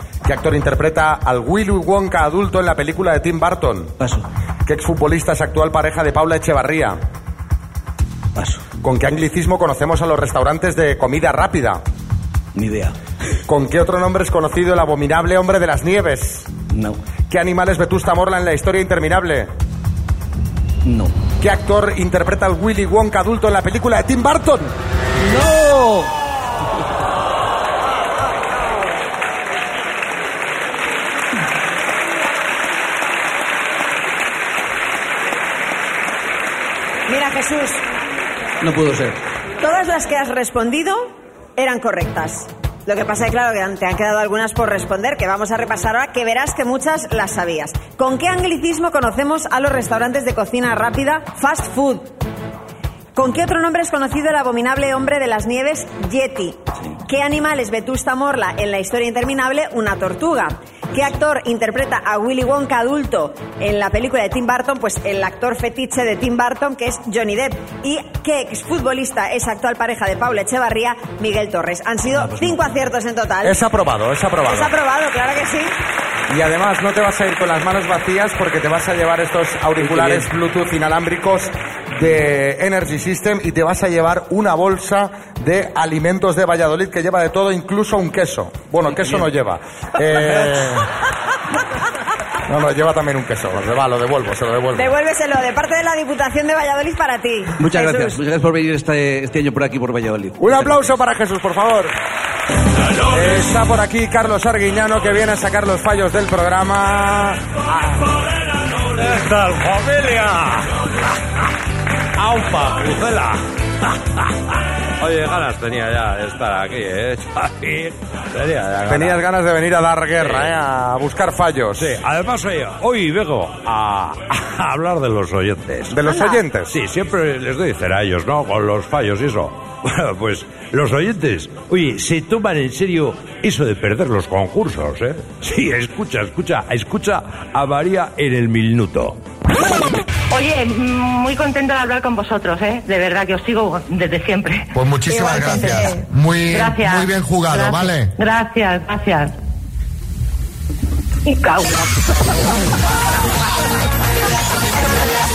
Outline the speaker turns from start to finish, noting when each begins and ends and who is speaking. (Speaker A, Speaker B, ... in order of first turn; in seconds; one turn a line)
Speaker A: 0.2-4.0
Speaker B: 4.0-4.2
Speaker A: 4.7-7.0
Speaker B: 8.3-8.6
Speaker A: 8.8-11.8
Speaker B: 12.6-12.9
Speaker A: 13.5-16.5
Speaker B: 16.7-17.0
Speaker A: 17.3-19.5
Speaker B: 20.9-21.1
Speaker A: 21.4-24.7
Speaker B: 25.2-26.1
Speaker C: 37.1-37.8
Speaker B: 38.6-39.2
Speaker C: 39.6-52.1
Speaker C: 53.1-73.6
Speaker B: 72.1-72.6
Speaker A: 73.4-74.7
Speaker C: 74.5-75.7
Speaker A: 76.3-90.9
Speaker B: 79.8-80.3
Speaker A: 92.5-94.9
Speaker C: 94.8-98.2
Speaker B: 97.6-100.8
Speaker A: 100.4-101.9
Speaker A: 103.1-108.0
Speaker D: 109.0-110.7
Speaker D: 112.2-113.4
Speaker D: 115.0-119.1
Speaker A: 118.8-122.0
Speaker D: 121.8-125.9
Speaker A: 125.9-126.8
Speaker C: 126.0-126.4
Speaker D: 126.7-139.2
Speaker E: 140.3-144.7
Speaker F: 144.7-148.1
Speaker C: 145.1-145.9
Speaker E: 145.5-145.8
Speaker E: 146.5-149.3
Speaker E: 151.2-151.9